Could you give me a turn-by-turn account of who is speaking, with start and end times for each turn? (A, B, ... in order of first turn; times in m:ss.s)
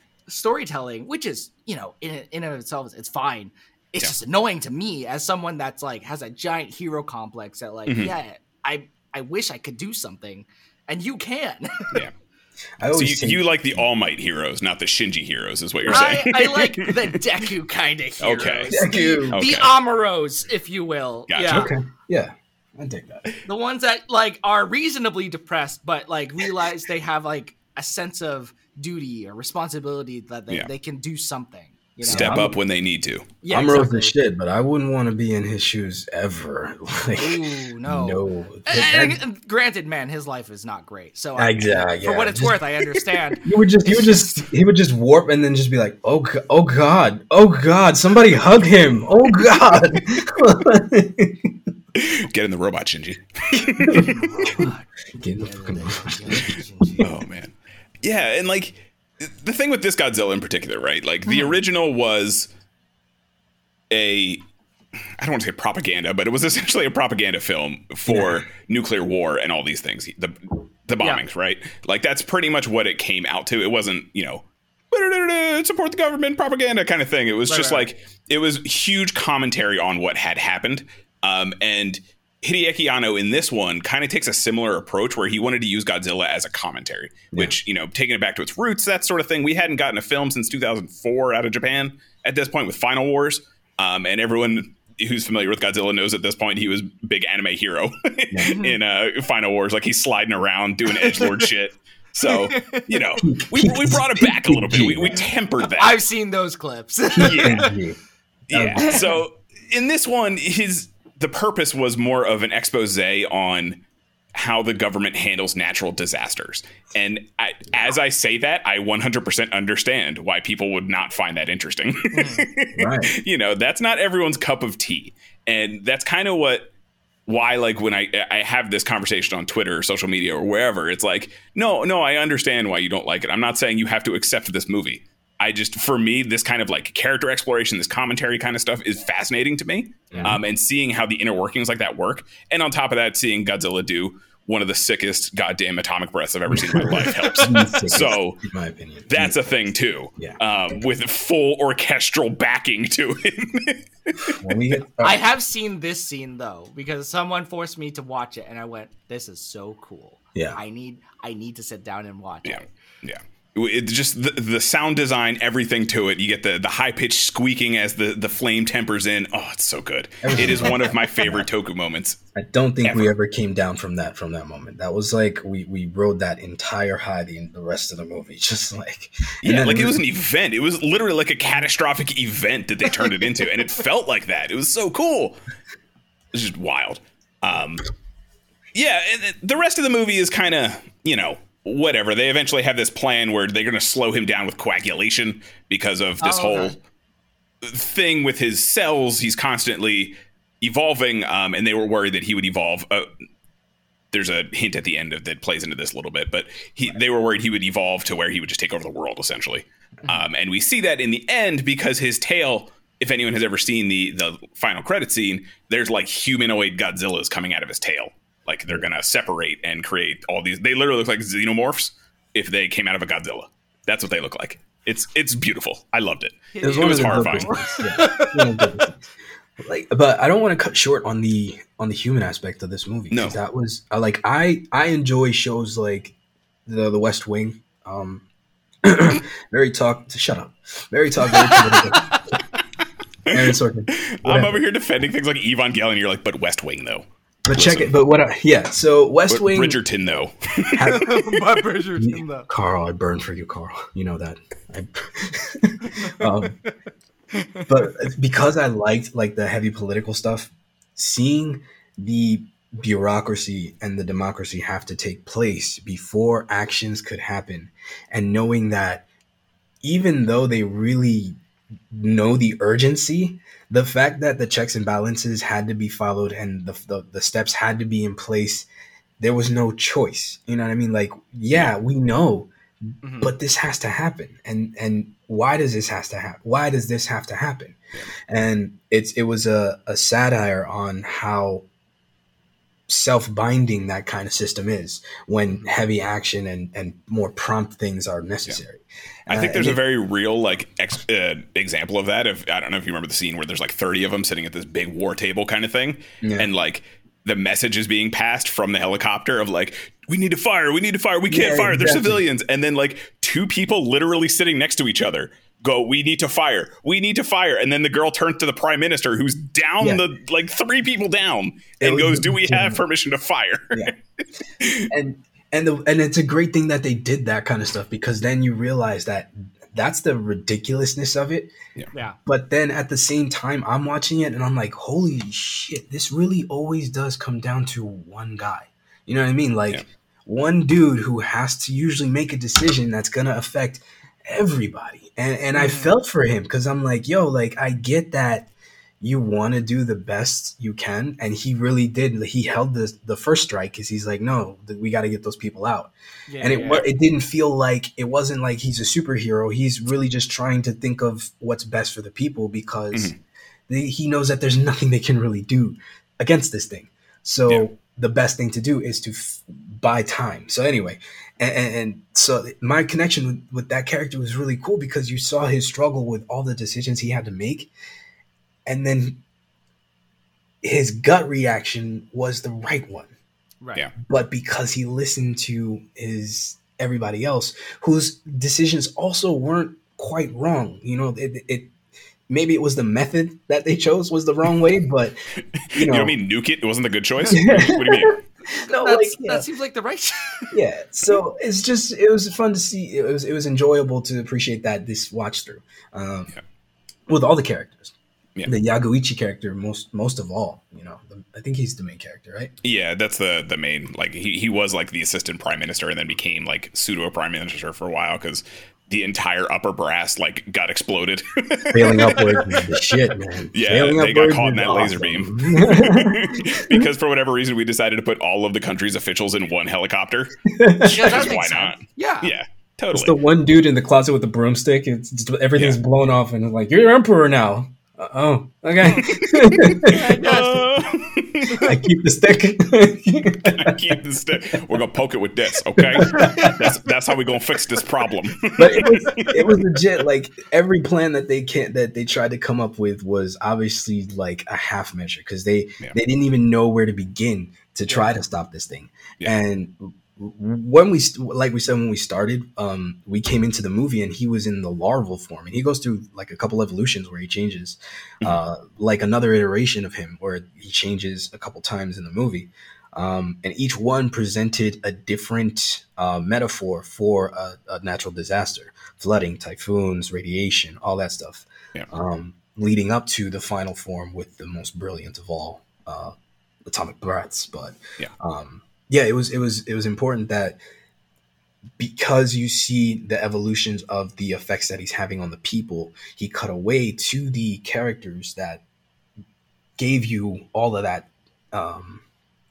0:00.3-0:11.9 A
0:07.9-0:08.1 B
0:12.8-0:13.8 C
0:12.9-0:16.9 B
0:15.8-0:16.2 C
0:15.9-0:21.7 A
0:18.2-0:18.7 B
0:18.7-0:19.4 C
0:19.3-0:19.7 B
0:21.3-0:21.7 B
0:21.5-0:23.2 C
0:23.4-0:32.6 A
0:32.0-0:32.5 C
0:32.0-0:33.3 B
0:33.4-0:34.1 A
0:33.5-0:39.2 C
0:37.2-0:44.1 A
0:41.4-0:42.6 C
0:43.4-0:51.5 C
0:51.9-0:54.2 B
0:53.8-0:54.9 A
0:53.8-0:56.4 C
0:55.4-0:57.1 A
0:57.0-1:02.5 B
1:01.3-1:01.6 A
1:03.9-1:04.4 B
1:05.2-1:46.0 B
1:08.1-1:08.4 C
1:17.5-1:17.9 A
1:38.4-1:38.8 A
1:41.0-1:41.4 A
1:42.2-1:42.8 A
1:43.2-1:45.2 C
1:45.7-1:47.7 A
1:47.2-1:48.0 C
1:47.2-1:47.6 B
1:48.5-1:53.8 B
1:48.5-1:49.2 C
1:48.8-1:49.1 A
1:54.3-2:06.7 B
2:02.1-2:02.5 A
2:02.7-2:03.1 C
2:07.3-2:28.4 B
2:20.1-2:20.4 C
2:26.5-2:29.4 C
2:27.0-2:27.9 A
2:29.1-2:34.4 B
2:34.4-2:35.2 C
2:35.0-2:42.7 A
2:42.4-2:52.2 B
2:50.2-2:51.5 C
2:52.3-3:00.0 C
2:52.8-2:53.1 B
2:59.4-3:05.4 B
3:06.3-3:07.8 B
3:08.7-3:16.7 B
3:16.2-3:16.8 A
3:17.6-3:23.1 B
3:24.1-3:47.5 B
3:46.5-3:48.8 A
3:46.6-3:49.0 C
3:49.6-3:56.1 C
3:53.1-3:53.4 B
3:56.6-3:58.2 C
3:58.8-4:02.2 C
4:03.3-4:04.6 C
4:03.3-4:07.9 B
4:07.4-4:09.8 C
4:09.3-4:11.2 B
4:10.8-4:11.2 C
4:10.9-4:12.5 A
4:12.0-4:16.5 C
4:15.8-4:16.7 A
4:17.3-4:17.7 A
4:17.7-4:29.0 C
4:29.8-4:31.4 C
4:31.9-4:38.7 C
4:39.2-4:42.5 C
4:43.0-4:43.3 A
4:43.2-4:51.6 C
4:52.9-4:59.8 C
4:59.3-5:23.9 B
5:06.2-5:06.5 C
5:11.3-5:12.2 C
5:21.8-5:22.8 C
5:24.6-5:24.9 B
5:24.9-5:31.5 C
5:32.2-5:48.5 C
5:45.5-5:45.9 A
5:49.0-6:03.1 C
5:56.3-5:56.8 A
6:03.7-6:17.7 C
6:18.6-6:19.2 C
6:20.6-6:23.1 C
6:24.0-6:31.7 C
6:32.3-6:35.2 C
6:35.6-6:38.2 B
6:35.7-6:36.1 C
6:37.3-6:39.4 C
6:38.6-6:40.5 A
6:40.5-6:46.3 C
6:47.1-6:52.5 C
6:52.6-7:02.2 B
7:01.7-7:06.8 C
7:02.0-7:02.6 A
7:03.5-7:13.2 B
7:10.5-7:11.3 C
7:10.9-7:12.3 A
7:12.9-7:20.1 C
7:18.8-7:19.2 A
7:19.8-7:20.7 A
7:19.9-7:21.6 B
7:21.6-7:23.8 C
7:23.5-7:29.5 B
7:25.8-7:26.5 C
7:26.1-7:26.6 A
7:28.6-8:06.1 C
8:06.6-8:10.6 C
8:11.8-8:18.6 C
8:19.8-8:22.0 C